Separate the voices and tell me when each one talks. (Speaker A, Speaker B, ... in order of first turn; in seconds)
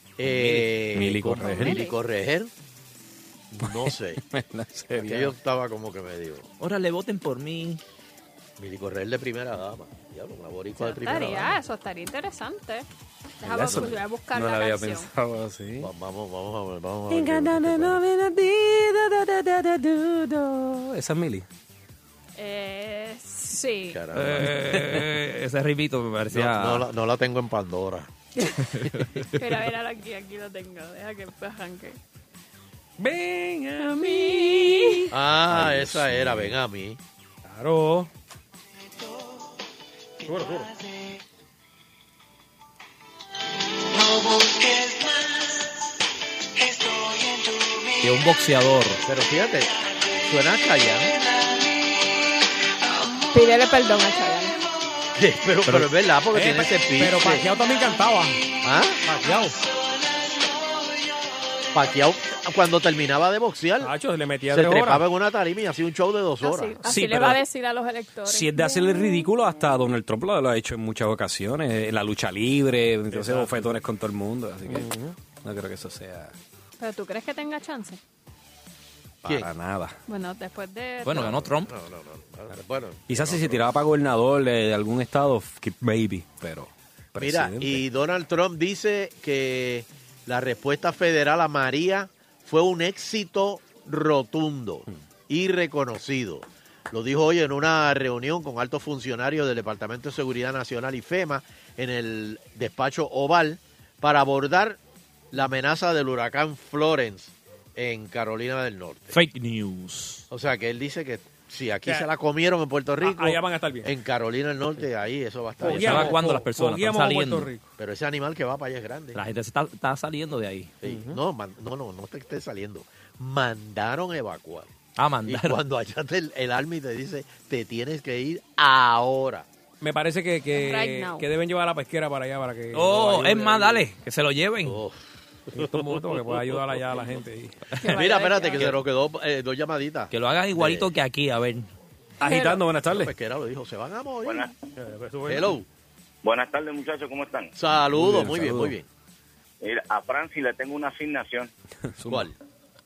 Speaker A: 0.2-2.5, 3.5-4.2, 5.0-6.5, 8.6-11.6, 15.8-18.0, 23.9-24.6, 26.3-28.1, 35.1-37.0, 49.0-51.2, 55.1-57.5, 58.6-59.0, 61.7-63.9, 64.5-66.8, 79.2-79.5, 81.1-83.6, 87.2-104.8, 105.3-109.2, 110.3-116.2, 117.8-119.2, 120.8-124.7, 125.3-129.5, 134.6-136.0, 137.8-140.9, 142.9-144.5, 145.3-145.7, 147.6-148.9, 152.1-152.3
Speaker B: 0.3-0.7, 6.6-7.8, 24.1-26.9, 48.0-49.0, 55.7-55.9, 81.0-81.7, 109.1-110.2, 115.6-117.5, 119.2-120.8, 125.0-125.6, 132.7-134.8, 140.1-141.7
Speaker C: 0.9-1.8, 3.6-5.3, 13.4-15.9, 17.1-21.4, 35.6-36.4, 66.9-67.4, 68.2-76.3, 79.2-80.0, 83.1-87.8, 142.2-143.1, 147.9-148.8, 151.9-152.3
Speaker D: 1.4-2.0, 10.8-12.9, 13.4-15.1, 22.4-24.0, 29.3-32.0, 33.8-35.1, 53.3-54.6, 66.4-69.2, 76.8-78.0, 80.1-81.4, 130.5-131.3, 137.8-138.6, 142.2-142.6
Speaker E: 33.0-35.0, 37.5-38.1, 40.2-40.7, 56.3-58.4, 59.0-59.6, 63.8-65.0, 73.1-73.8, 74.7-75.2, 113.0-113.9, 115.6-117.7, 120.8-121.2, 129.8-133.8, 135.6-137.7, 144.8-145.6
Speaker F: 144.2-144.5, 146.2-147.5, 149.6-151.5